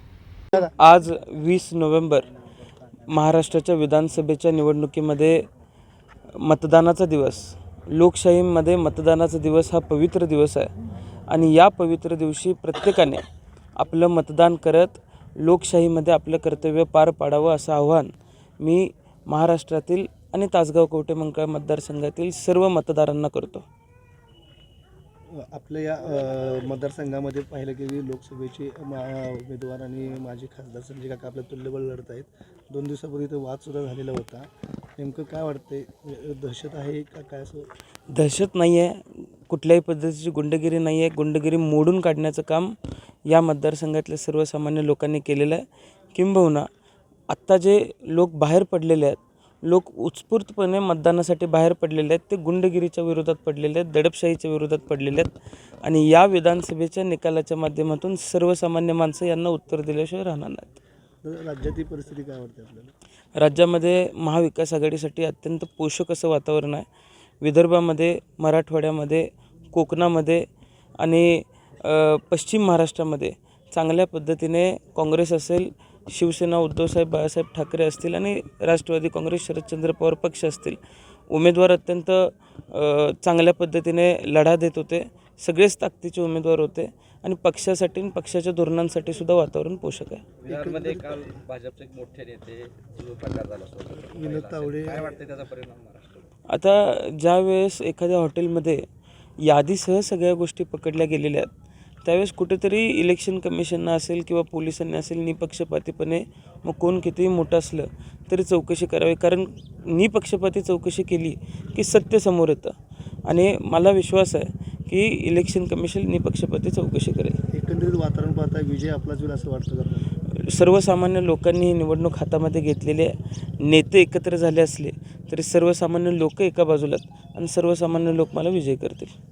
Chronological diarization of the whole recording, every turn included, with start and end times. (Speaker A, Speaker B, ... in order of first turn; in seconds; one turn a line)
Speaker A: 0.5-2.3
Speaker A: 3.0-5.5
Speaker A: 6.3-10.7
Speaker A: 11.2-13.2
Speaker A: 13.8-23.6
Speaker B: 25.3-37.7
Speaker A: 38.1-42.7
Speaker A: 43.3-46.7
Speaker A: 47.3-60.8
Speaker B: 61.2-62.9
Speaker A: 63.4-66.8
Speaker A: 67.4-70.5
Speaker A: 71.0-80.8
Speaker A: 81.3-90.3
Speaker C: 90.4-96.2
Speaker B: 90.5-91.1
Speaker B: 94.0-95.1
Speaker A: 96.5-98.8
Speaker A: 99.4-101.5
Speaker A: 102.0-112.7
Speaker A: 113.2-117.4
Speaker B: 117.5-120.1
Speaker A: 120.3-129.1